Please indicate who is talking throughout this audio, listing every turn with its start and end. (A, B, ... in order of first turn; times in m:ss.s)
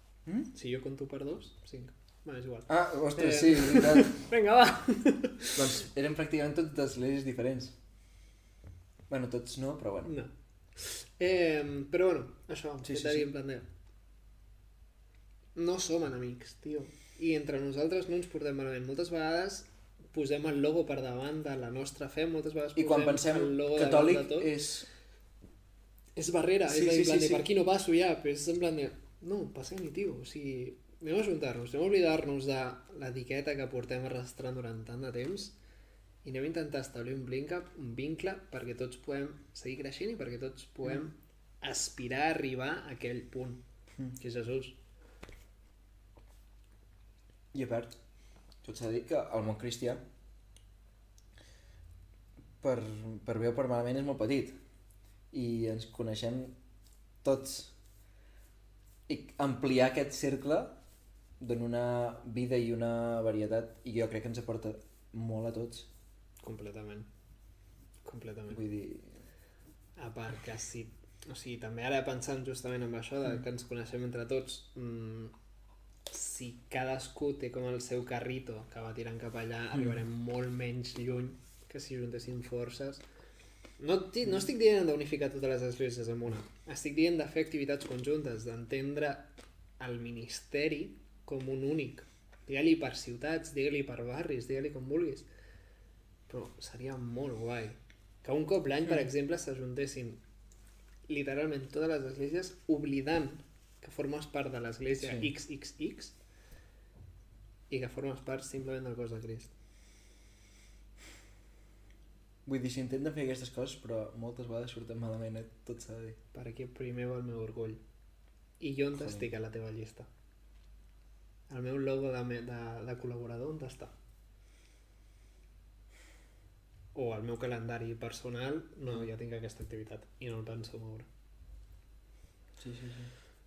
0:00.5-0:05.7 A
0:02.7-0:04.1 B
0:05.5-0:07.7 B
0:09.1-0:10.1 B
0:10.0-0:13.6 A
0:12.8-0:13.3 B
0:15.5-0:24.5 A
0:22.8-0:24.9 B
0:26.2-0:35.5 A
0:26.7-0:27.4 B
0:36.2-0:43.6 A
0:44.2-0:44.8 A
0:47.5-0:48.0 B
0:48.6-0:50.0 B
0:52.6-0:54.5 B
0:55.3-0:56.6 B
0:57.2-0:57.7 B
0:59.1-1:00.7 B
1:01.4-1:05.9 B
1:06.4-1:07.1 A
1:08.0-1:08.6 A
1:08.5-1:09.1 B
1:10.0-1:15.3 A
1:16.1-1:23.0 A
1:23.8-1:35.3 A
1:36.3-1:40.2 A
1:41.1-1:46.1 A
1:45.0-1:45.3 B
1:47.7-1:49.5 A
1:52.4-1:56.2 B
1:56.3-1:57.8 A
1:58.6-2:00.1 A
2:01.5-2:03.9 A
2:06.9-2:11.1 A
2:12.6-2:13.1 B